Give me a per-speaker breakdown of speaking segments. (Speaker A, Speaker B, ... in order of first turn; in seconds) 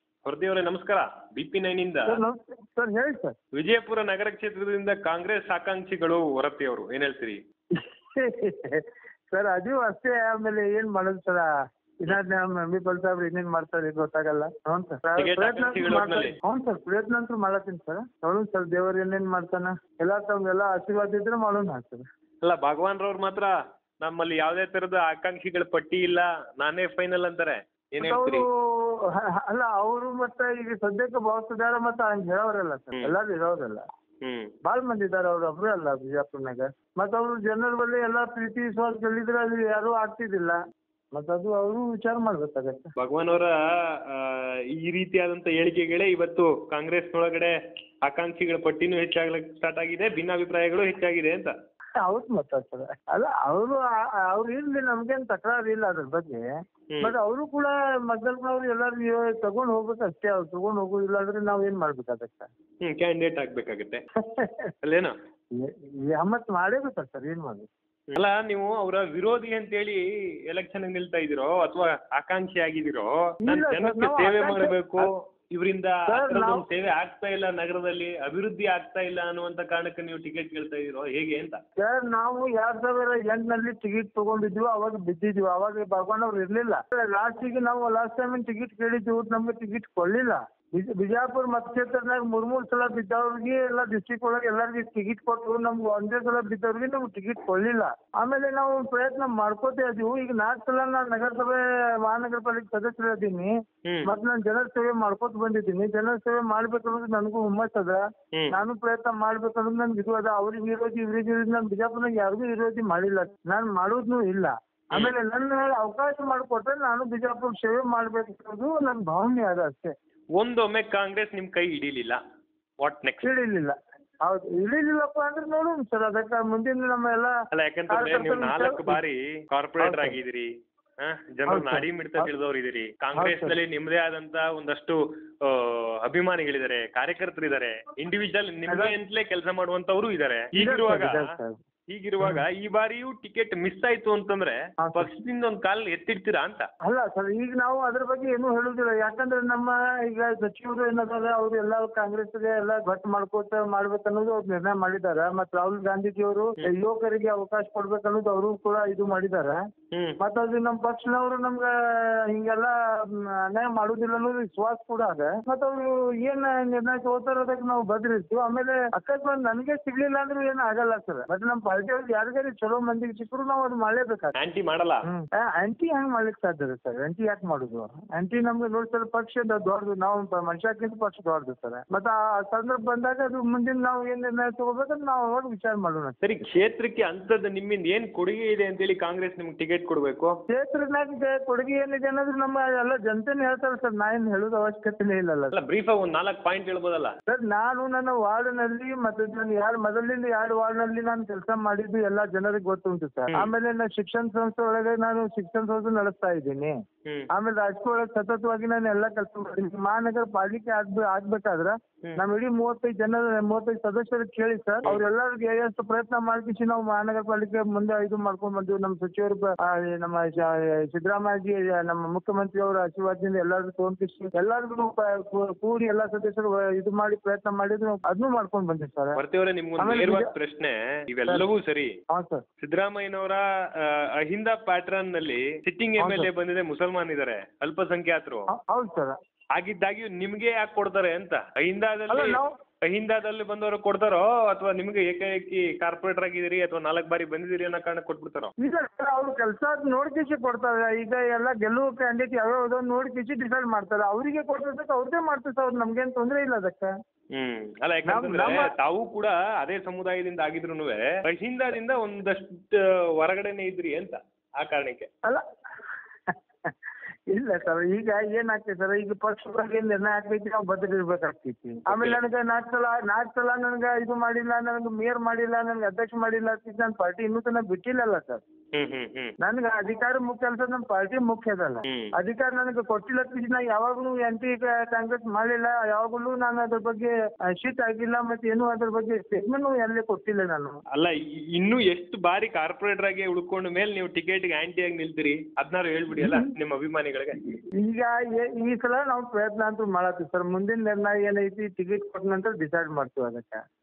Speaker A: 0.2-2.1, 3.5-7.4, 15.1-16.4, 22.4-28.4, 34.2-34.5, 43.0-51.5, 62.8-64.0, 64.8-65.1, 68.1-81.6, 120.4-122.2, 122.8-123.3, 127.5-130.5, 131.0-141.3, 141.9-146.7, 159.9-160.2, 174.3-175.0, 186.2-190.3, 195.5-197.1, 229.2-231.9, 232.6-238.5, 239.5-248.5, 257.3-265.1, 271.9-272.2, 278.7-279.3, 281.9-282.1, 290.9-297.4
Speaker B: 2.1-3.3, 7.8-11.5, 12.0-22.0, 28.0-33.8, 34.6-40.6, 41.1-42.9, 52.0-56.5, 57.0-62.5, 64.2-64.7, 65.5-67.7, 73.4-75.1, 76.1-76.6, 81.8-103.5, 104.0-119.9, 123.2-127.3, 127.9-129.0, 129.8-130.2, 131.5-132.3, 133.2-133.6, 138.7-138.9, 140.6-141.6, 144.8-145.1, 146.8-159.6, 160.2-174.3, 175.1-186.2, 190.5-195.5, 197.3-206.7, 207.3-229.2, 229.8-230.3, 232.1-232.4, 236.0-236.3, 238.5-239.2, 242.1-242.5, 248.6-256.9, 258.1-258.7, 266.3-266.7, 267.3-278.4, 279.4-290.8, 296.2-296.5, 297.8-303.6